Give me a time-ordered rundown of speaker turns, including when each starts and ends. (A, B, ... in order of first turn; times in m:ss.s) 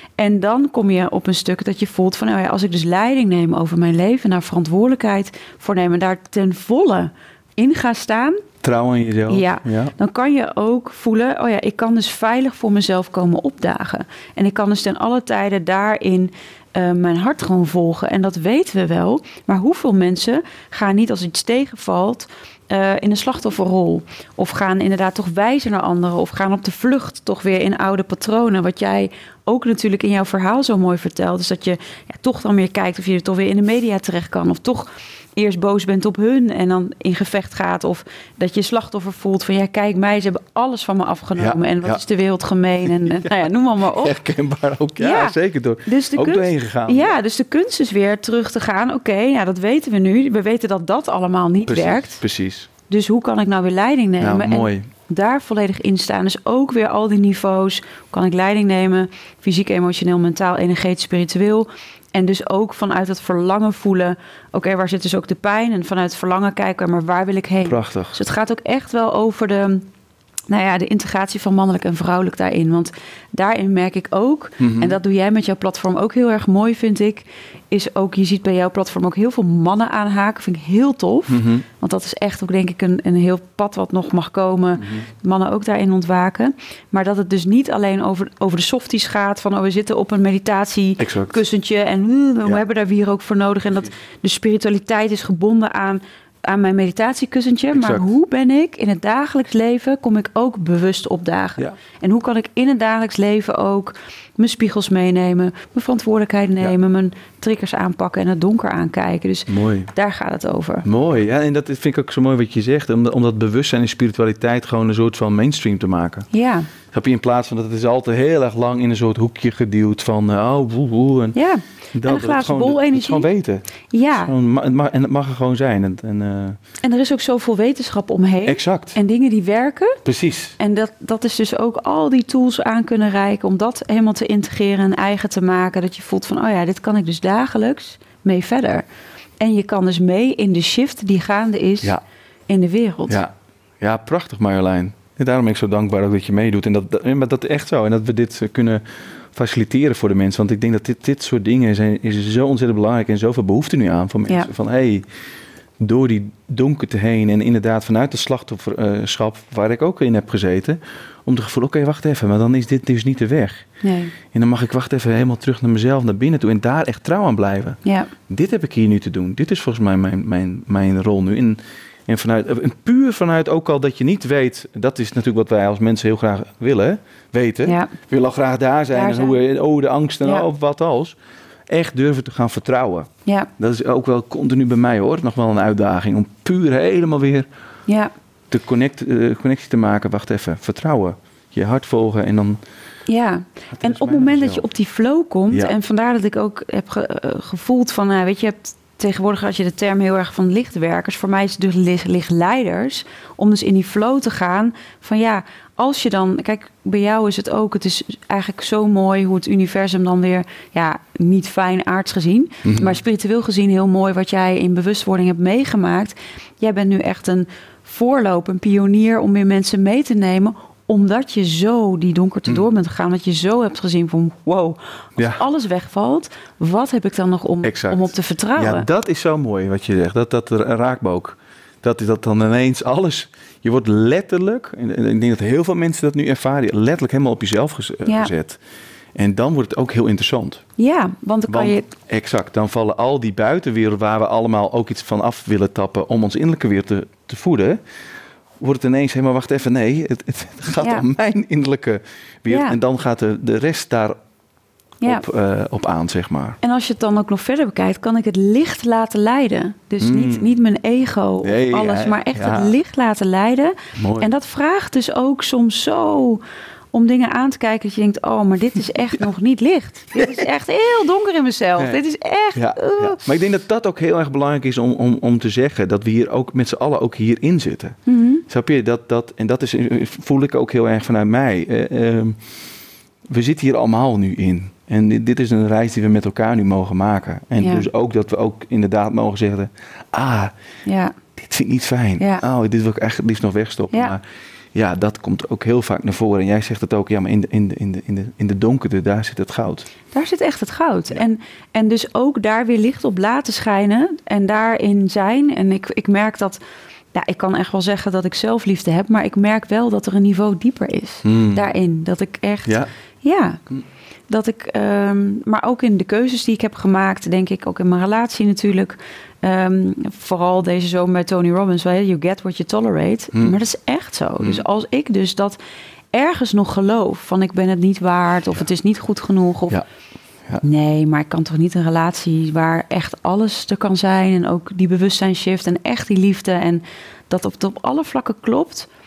0:00.2-0:08.4 A
0:08.6-0:09.9 B
0:09.3-0:44.1 A
0:41.4-0:42.0 B
0:42.8-0:47.1 B
0:45.0-0:52.2 A
0:51.7-0:52.7 B
0:52.9-1:09.9 A
0:54.2-0:54.9 B
1:07.6-1:08.2 B
1:10.5-1:50.8 A
1:14.6-1:15.0 B
1:21.3-1:21.6 B
1:24.8-1:25.0 B
1:31.0-1:31.4 B
1:37.7-1:38.0 B
1:49.5-1:49.9 B
1:50.8-1:56.3 B
1:56.3-1:56.7 A
1:56.9-2:01.4 B
2:01.3-2:03.3 A
2:01.9-2:06.6 B
2:03.9-2:04.3 A
2:06.8-2:10.0 A
2:08.4-2:09.0 B
2:10.0-2:10.6 B
2:10.6-2:18.8 A
2:19.4-2:22.0 A
2:22.5-2:23.2 A
2:23.1-2:35.0 B
2:35.8-2:43.7 B
2:43.8-2:44.1 A
2:44.3-3:01.2 B
2:47.8-2:48.1 A
2:57.6-2:57.9 A
2:58.9-2:59.4 A
3:01.7-3:07.5 B
3:07.9-3:08.1 A
3:08.5-3:12.6 B
3:13.1-3:48.9 A
3:13.7-3:14.6 B
3:32.6-3:33.0 B
3:45.2-3:45.4 B
3:47.6-3:58.6 B
3:58.1-3:58.3 A
3:59.1-4:00.6 B
4:00.8-4:01.9 A
4:01.5-4:07.8 B
4:08.6-4:14.2 B
4:10.8-4:11.0 A
4:12.5-4:12.8 A
4:15.0-4:16.6 B
4:16.6-4:26.4 A
4:20.0-4:20.5 B
4:21.4-4:22.7 B
4:24.0-4:24.3 B
4:26.9-4:33.2 A
4:30.1-4:30.4 B
4:32.5-4:38.0 B
4:38.1-4:38.4 A
4:38.5-4:42.4 B
4:43.3-4:50.5 B
4:47.6-4:47.8 A
4:50.8-4:51.1 A
4:51.4-4:54.2 B
4:52.2-4:52.4 A
4:54.7-4:59.9 B
5:00.1-5:06.6 A
5:07.1-5:13.6 A
5:11.2-5:11.6 B
5:14.3-5:25.6 A
5:24.4-5:24.6 B
5:26.1-5:29.8 A
5:30.6-5:38.9 A